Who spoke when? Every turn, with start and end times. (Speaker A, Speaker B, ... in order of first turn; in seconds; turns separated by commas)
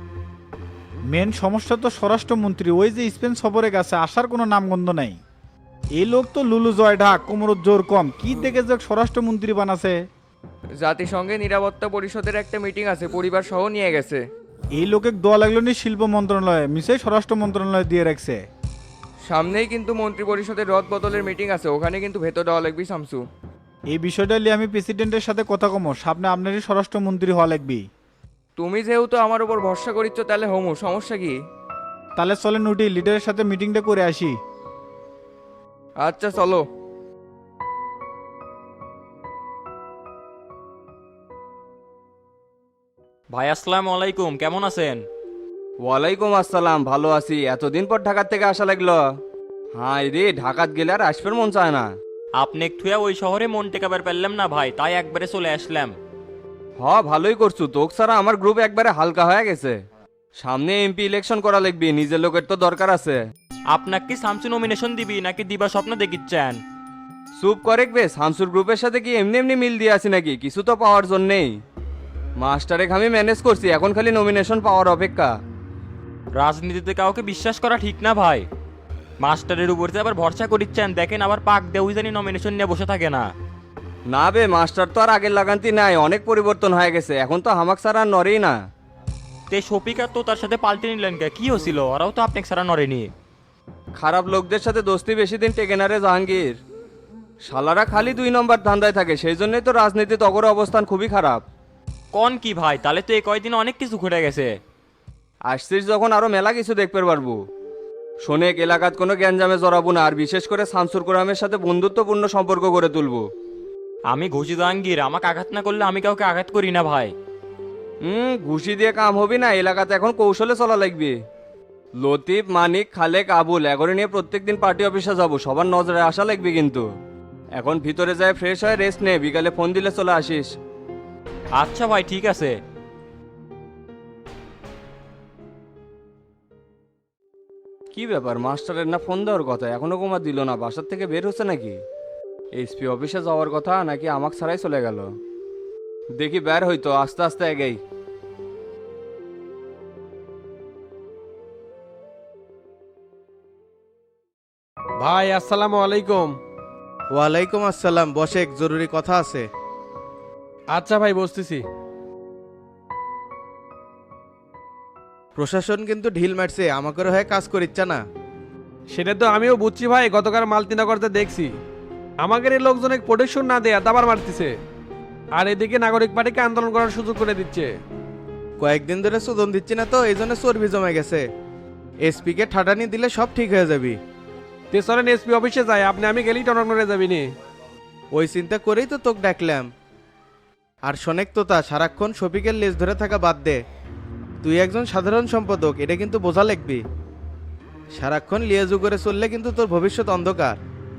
Speaker A: 1.1-5.2, Speaker A: 6.0-10.0, Speaker B: 10.8-14.2, Speaker C: 10.8-11.4, Speaker C: 12.0-12.9, Speaker C: 13.6-13.9, Speaker A: 14.8-18.4, Speaker B: 19.3-23.2, Speaker C: 19.3-23.2, Speaker A: 23.9-27.9, Speaker B: 28.6-31.3, Speaker C: 28.6-31.3, Speaker A: 32.2-34.4, Speaker B: 36.0-36.6, Speaker C: 36.1-36.5, Speaker C: 43.3-45.0, Speaker D: 45.8-49.0, Speaker D: 49.8-51.9, Speaker C: 52.4-56.0, Speaker D: 56.8-59.8, Speaker D: 60.4-63.2, Speaker C: 63.7-66.6, Speaker D: 67.4-71.5, Speaker D: 72.4-75.3, Speaker C: 76.3-78.5, Speaker C: 79.2-83.3, Speaker D: 84.1-88.6, Speaker C: 89.5-93.1, Speaker D: 94.0-96.6, Speaker D: 97.5-101.4, Speaker C: 102.1-104.6, Speaker D: 105.5-107.4, Speaker D: 108.2-113.2, Speaker C: 114.1-117.1, Speaker D: 118.0-121.2, Speaker D: 122.0-126.8, Speaker D: 127.6-130.5, Speaker C: 131.6-132.5, Speaker D: 137.9-141.8, Speaker D: 142.6-145.1, Speaker D: 146.2-147.8, Speaker E: 155.0-156.3, Speaker F: 157.1-159.5, Speaker E: 160.8-161.6, Speaker F: 165.4-168.0, Speaker E: 169.0-171.4, Speaker E: 172.3-174.5, Speaker E: 175.4-177.7, Speaker F: 178.6-181.2, Speaker F: 182.1-184.0, Speaker E: 184.7-187.2, Speaker F: 188.1-189.7, Speaker F: 190.9-193.6, Speaker F: 194.4-196.8, Speaker F: 198.0-200.6